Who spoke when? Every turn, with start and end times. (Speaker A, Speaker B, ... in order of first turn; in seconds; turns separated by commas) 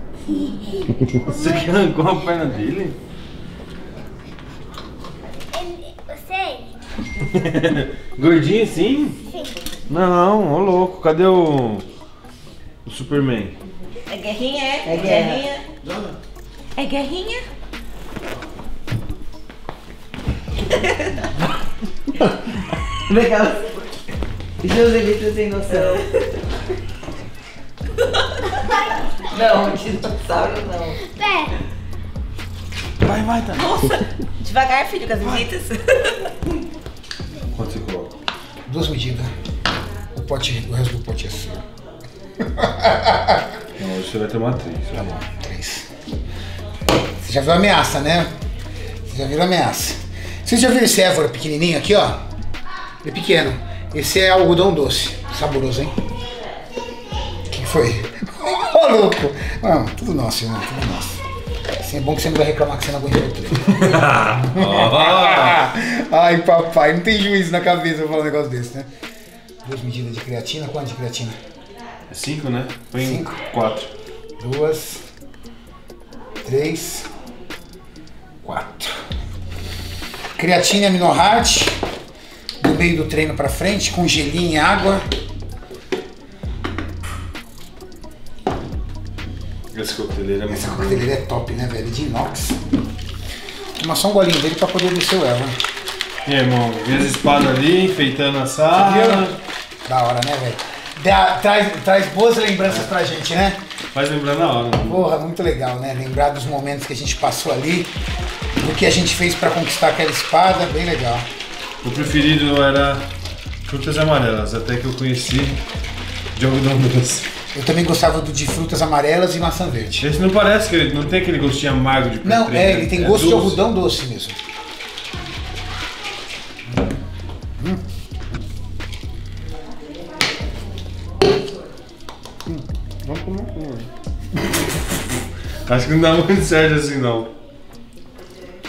Speaker A: 0.3-1.6, Speaker B: 1.0-3.0, Speaker A: 5.5-6.7, Speaker B: 7.2-9.2, Speaker A: 9.3-9.6, Speaker B: 9.9-11.9, Speaker B: 12.9-13.6, Speaker C: 14.1-15.7, Speaker D: 14.8-15.4, Speaker C: 16.8-17.4, Speaker C: 20.7-21.1, Speaker D: 23.1-23.8, Speaker D: 24.6-26.1, Speaker A: 28.6-28.9, Speaker D: 29.3-31.0, Speaker A: 31.0-31.5, Speaker B: 33.0-33.7, Speaker C: 33.5-36.3, Speaker B: 37.5-38.1, Speaker E: 38.7-39.3, Speaker E: 40.1-41.6, Speaker E: 42.4-43.5, Speaker B: 43.8-45.2, Speaker E: 45.3-45.9, Speaker E: 47.2-48.3, Speaker E: 49.0-52.2, Speaker E: 53.0-56.0, Speaker E: 57.5-61.2, Speaker E: 61.8-64.0, Speaker B: 63.7-65.6, Speaker E: 64.5-68.9, Speaker E: 69.6-71.4, Speaker B: 72.1-73.9, Speaker E: 73.0-73.4, Speaker E: 74.4-75.0, Speaker E: 76.4-77.1, Speaker E: 78.4-79.0, Speaker E: 80.4-81.8, Speaker E: 82.6-85.0, Speaker B: 89.7-91.1, Speaker E: 90.5-92.6, Speaker E: 93.8-95.6, Speaker B: 96.2-99.3, Speaker E: 98.7-103.6, Speaker B: 103.9-105.0, Speaker E: 104.8-107.9, Speaker E: 108.5-111.3, Speaker B: 111.8-113.0, Speaker B: 113.7-115.6, Speaker B: 116.3-117.3, Speaker E: 117.5-120.1, Speaker B: 120.0-123.6, Speaker E: 122.2-124.4, Speaker B: 133.0-133.9, Speaker B: 135.7-137.3